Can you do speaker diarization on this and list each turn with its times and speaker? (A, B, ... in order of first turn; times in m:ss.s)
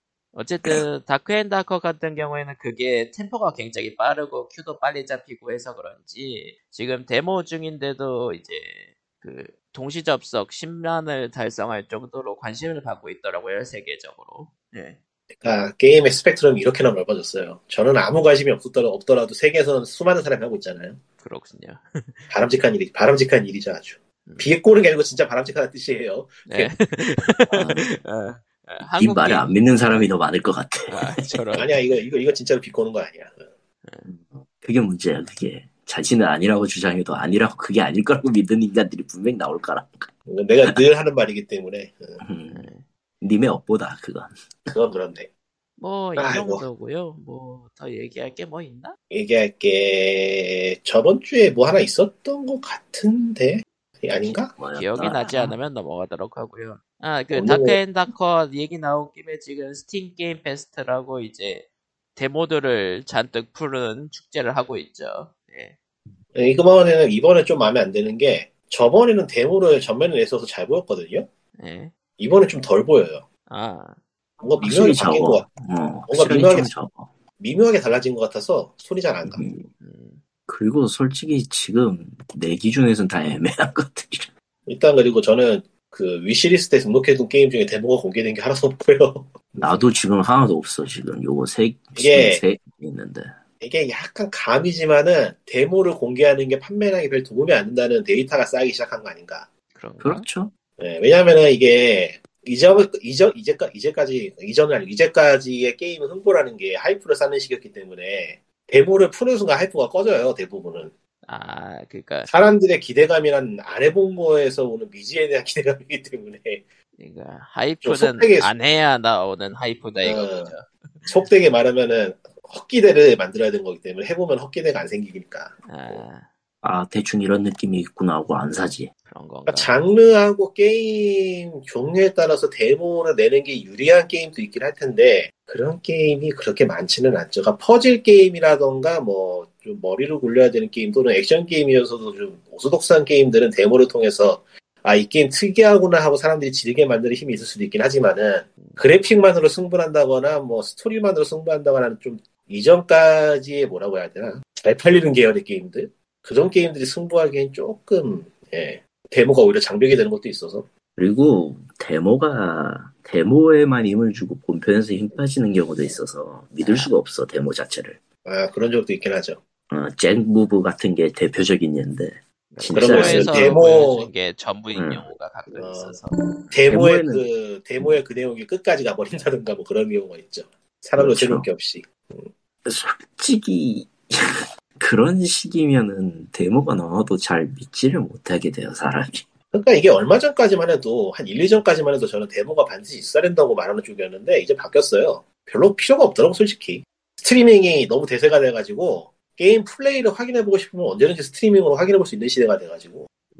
0:00.3-0:15.0 A
0:15.4-0:21.0 B
0:21.2-0:22.3 A
0:22.3-0:26.7 B
0:26.5-0:30.0 A
0:27.5-0:27.9 C
0:29.0-0:31.4 C
0:30.9-0:31.7 A
0:31.5-0:33.4 B
0:34.0-0:40.1 C
0:40.3-0:42.2 B
0:42.2-0:42.7 C
0:42.5-0:42.8 A
0:43.2-0:44.3 C
0:44.7-0:45.3 B
0:45.8-0:49.0 A
0:46.2-0:46.6 B
0:49.1-0:54.5 B
0:54.2-0:55.6 C
0:54.8-1:05.8 A
0:57.3-0:57.8 B
1:06.3-1:11.3 B
1:11.6-1:11.9 A
1:12.2-1:13.2 B
1:13.5-1:14.0 A
1:14.4-1:15.5 B
1:14.6-1:17.2 C
1:16.1-1:16.7 B
1:17.4-1:19.4 B
1:19.2-1:19.7 C
1:19.8-1:20.2 A
1:20.5-1:24.3 C
1:24.7-1:29.9 B
1:29.6-1:33.3 C
1:32.0-1:32.4 B
1:33.6-1:39.5 B
1:39.7-1:40.2 A
1:40.0-1:40.5 C
1:40.8-1:50.9 B
1:51.3-1:52.3 A
1:52.3-1:56.6 B
1:57.0-2:01.1 A
1:57.8-1:58.5 B
2:00.0-2:00.5 B
2:01.1-2:06.0 B
2:05.7-2:06.3 A
2:06.6-2:08.9 C
2:09.0-2:09.7 A
2:09.5-2:40.7 B
2:41.0-2:48.0 C
2:46.6-2:46.9 A
2:48.2-2:49.4 B
2:49.7-2:53.6 C
2:52.5-2:56.2 A
2:52.7-2:54.1 B
2:54.7-2:55.1 C
2:55.6-3:02.3 B
2:56.7-2:57.3 C
3:01.0-3:01.5 C
3:02.6-3:09.3 C
3:09.5-3:23.1 B